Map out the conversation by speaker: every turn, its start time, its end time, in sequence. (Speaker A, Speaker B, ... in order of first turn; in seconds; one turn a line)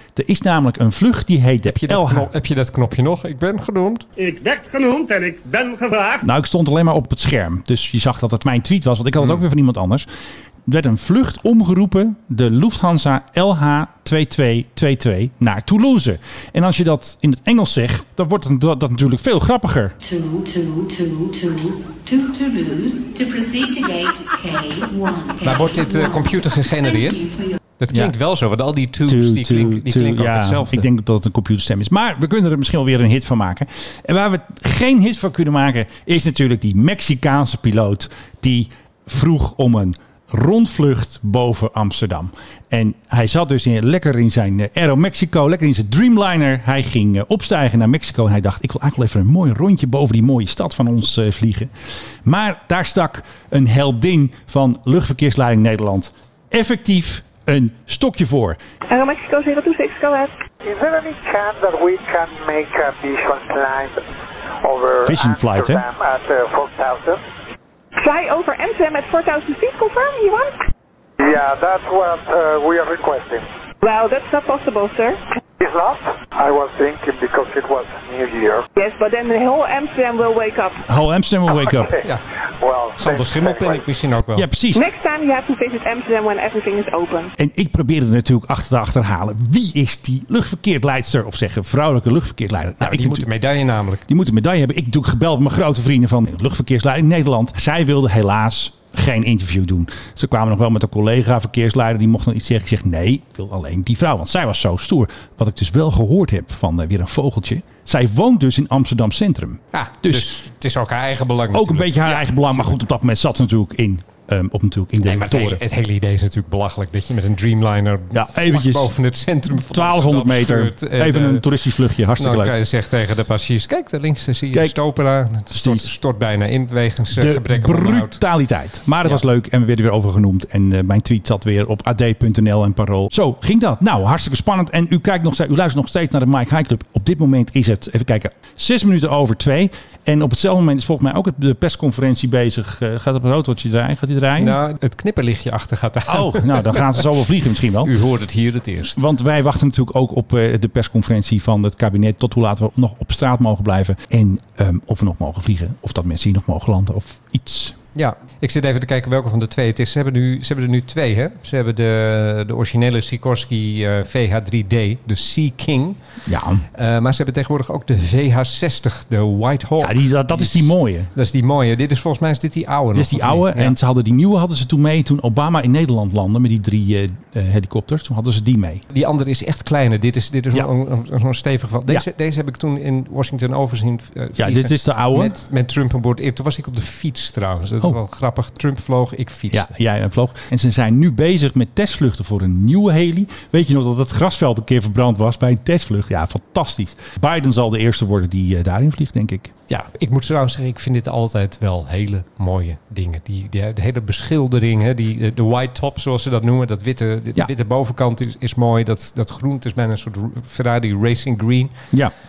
Speaker A: 0.1-2.3
Speaker B: 1.7-4.0
Speaker C: 4.2-6.2
Speaker A: 6.2-10.1
Speaker A: 10.7-19.9
Speaker D: 20.0-27.4
Speaker B: 25.4-30.9
Speaker A: 29.1-51.7
Speaker A: 52.2-58.6
Speaker E: 58.9-60.3
Speaker F: 60.6-64.0
Speaker F: 64.6-67.2
Speaker A: 65.0-65.8
Speaker E: 68.0-70.6
Speaker F: 71.2-73.5
Speaker E: 73.8-75.2
Speaker F: 75.6-78.7
Speaker E: 78.8-80.8
Speaker A: 80.8-81.9
Speaker F: 81.5-82.0
Speaker F: 82.6-83.8
Speaker B: 83.0-84.5
Speaker A: 84.3-84.8
Speaker E: 84.7-87.3
Speaker A: 87.4-93.2
Speaker B: 92.8-94.0
Speaker A: 94.1-110.3
Speaker B: 109.7-112.8
Speaker A: 111.5-115.6
Speaker B: 115.0-121.4
Speaker A: 118.1-118.9
Speaker A: 119.5-122.5
Speaker B: 122.2-128.2
Speaker A: 124.5-124.8
Speaker A: 125.5-125.9
Speaker A: 127.1-144.6
Speaker B: 144.4-147.1
Speaker A: 146.1-147.9
Speaker B: 147.8-149.0
Speaker A: 148.9-157.8
Speaker B: 157.9-166.0
Speaker A: 166.3-166.6
Speaker B: 166.7-173.8
Speaker A: 169.8-171.1
Speaker A: 172.9-178.8
Speaker B: 178.9-189.7
Speaker A: 184.4-185.3
Speaker A: 189.5-199.5
Speaker B: 199.7-211.7